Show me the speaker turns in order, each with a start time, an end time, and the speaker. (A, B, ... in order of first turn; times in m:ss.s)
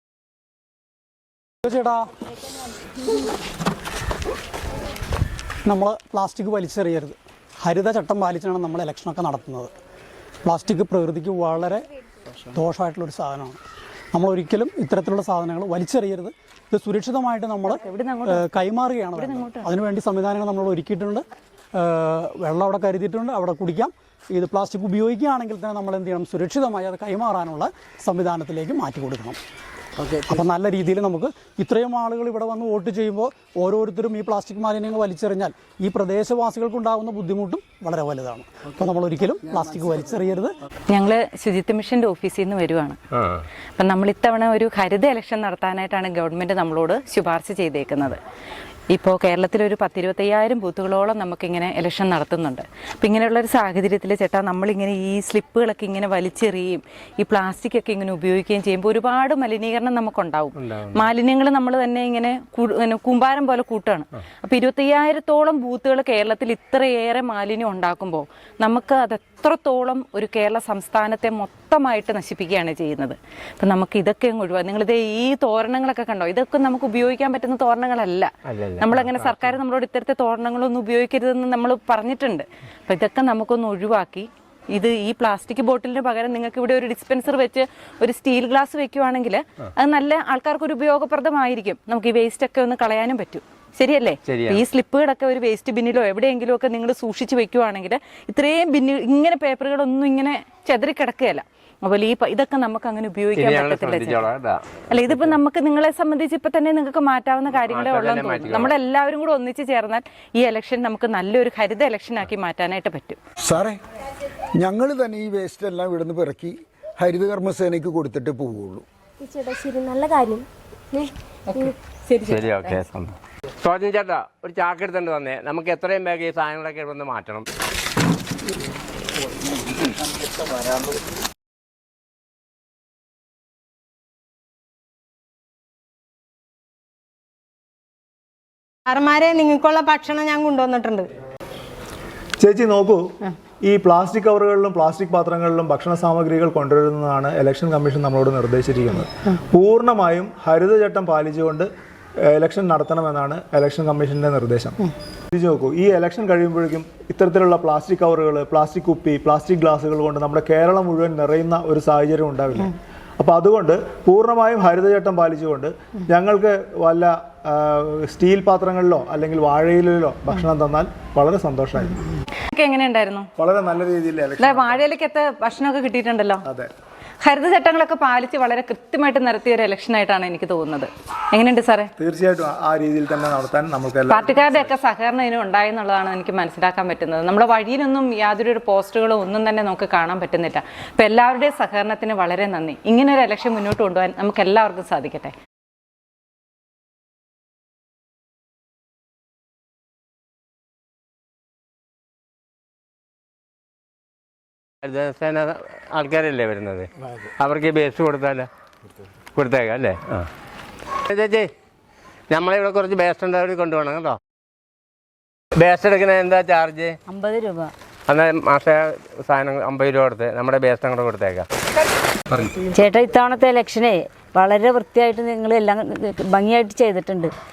0:01.6-0:02.1 A
0:05.7-0:09.7 A
0:10.4-0:11.8 A
0:12.5-0:13.6 A
0:14.1-0:21.2 A
0:17.7-0:18.5 B
0:19.1-0:19.7 B
0:21.8-0:29.4 A
0:30.3-0:40.5 A
0:40.9-0:43.0 B
0:43.2-0:43.4 C
0:43.8-0:48.2 B
0:48.9-1:44.3 B
1:00.6-1:01.1 C
1:18.5-1:19.6 C
1:34.3-1:34.7 C
1:43.3-1:45.4 C
1:44.9-1:53.2 B
1:47.6-1:48.7 C
1:53.4-1:53.8 D
1:54.6-1:58.8 D
1:59.2-2:01.7 E
2:01.5-2:02.8 B
2:02.3-2:07.5 C
2:18.9-2:21.1 F
2:22.4-2:23.0 G
2:23.6-2:31.7 G
2:32.3-2:52.0 G
2:52.5-2:53.3 B
2:53.4-2:54.8 G
2:54.4-2:56.4 B
2:57.2-3:01.9 B
3:02.0-3:04.6 G
3:04.1-3:15.3 B
3:24.8-3:28.5 C
3:29.4-3:30.3 C
3:31.1-3:31.5 C
3:32.3-3:34.2 C
3:35.6-3:36.9 C
3:37.1-3:37.7 H
3:38.1-3:41.5 C
3:42.7-3:47.3 H